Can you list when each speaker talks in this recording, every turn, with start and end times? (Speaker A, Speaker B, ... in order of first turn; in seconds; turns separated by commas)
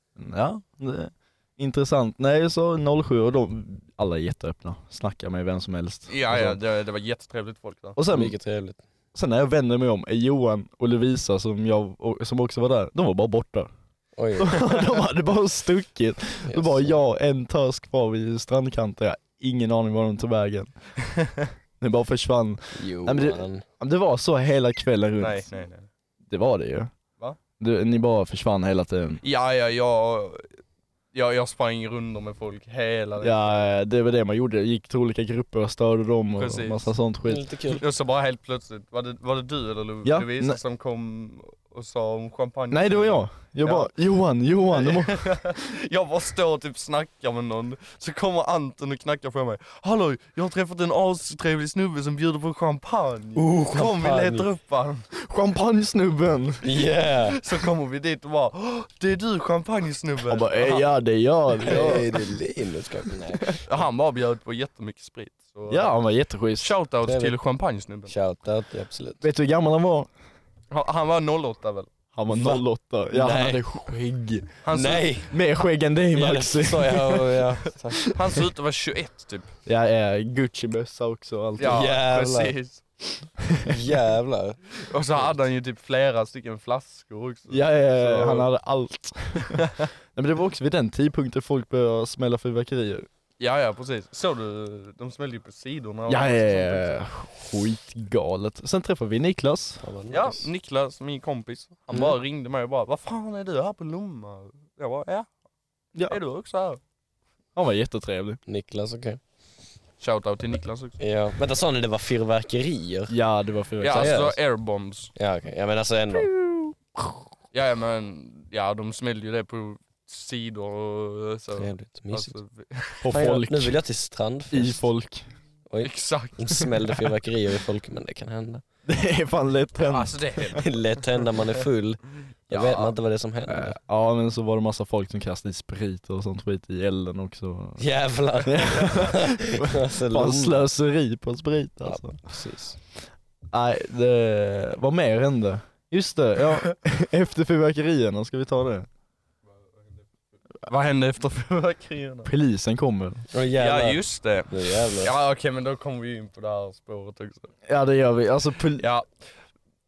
Speaker A: 0.2-6.6, Speaker B: 6.1-8.0, Speaker A: 8.0-8.4, Speaker C: 8.1-8.8, Speaker A: 9.2-13.7, Speaker C: 14.2-14.8, Speaker A: 14.4-20.7, Speaker C: 16.5-17.0, Speaker A: 21.8-25.5, Speaker C: 22.8-23.6, Speaker B: 25.2-25.9, Speaker A: 26.3-26.9, Speaker A: 27.6-29.2, Speaker B: 29.2-30.5, Speaker B: 31.1-33.8, Speaker A: 33.2-37.5, Speaker B: 36.4-36.9, Speaker C: 37.3-37.8, Speaker B: 37.7-43.9, Speaker A: 40.0-40.6, Speaker A: 42.7-45.6, Speaker B: 44.7-55.1, Speaker C: 53.4-54.5, Speaker A: 55.2-56.9, Speaker C: 56.6-57.4, Speaker B: 57.3-60.9, Speaker A: 60.3-62.1, Speaker C: 61.6-63.6, Speaker B: 61.6-62.1, Speaker A: 63.3-63.6, Speaker B: 63.7-65.9, Speaker A: 65.7-66.7, Speaker B: 66.6-68.1, Speaker C: 67.1-67.3, Speaker C: 68.1-69.2, Speaker A: 69.2-70.1, Speaker B: 70.7-71.9, Speaker A: 72.1-74.6, Speaker C: 72.3-72.6, Speaker C: 73.1-73.6, Speaker B: 74.6-75.2, Speaker C: 74.7-75.3, Speaker A: 75.3-77.9, Speaker C: 76.1-78.1, Speaker B: 78.1-79.5, Speaker A: 79.7-81.9, Speaker B: 81.6-82.8, Speaker C: 81.6-82.5, Speaker C: 83.7-84.6, Speaker B: 84.8-88.5, Speaker A: 87.5-93.1, Speaker B: 89.5-89.9, Speaker B: 93.4-97.0, Speaker A: 96.1-99.8, Speaker C: 99.8-100.5, Speaker B: 100.1-105.3, Speaker B: 106.1-106.8, Speaker A: 107.5-108.4, Speaker C: 108.5-109.2, Speaker B: 110.0-111.0, Speaker C: 111.0-113.2, Speaker A: 113.1-114.4, Speaker B: 113.8-115.1, Speaker C: 113.9-114.3, Speaker C: 115.2-116.3, Speaker A: 116.1-116.8, Speaker B: 117.5-123.1, Speaker C: 121.6-122.3, Speaker A: 123.0-123.8, Speaker C: 123.1-124.8, Speaker A: 124.5-125.3, Speaker C: 125.7-128.6, Speaker B: 125.8-127.1, Speaker A: 128.9-130.6, Speaker B: 129.9-131.3, Speaker C: 130.6-133.8, Speaker B: 132.5-132.9, Speaker A: 133.5-142.2, Speaker C: 137.8-140.7, Speaker C: 141.9-142.8, Speaker A: 143.5-148.9, Speaker B: 150.7-152.3, Speaker A: 152.2-153.2, Speaker C: 153.3-155.1, Speaker B: 153.6-157.5, Speaker A: 157.7-158.9, Speaker B: 158.8-159.2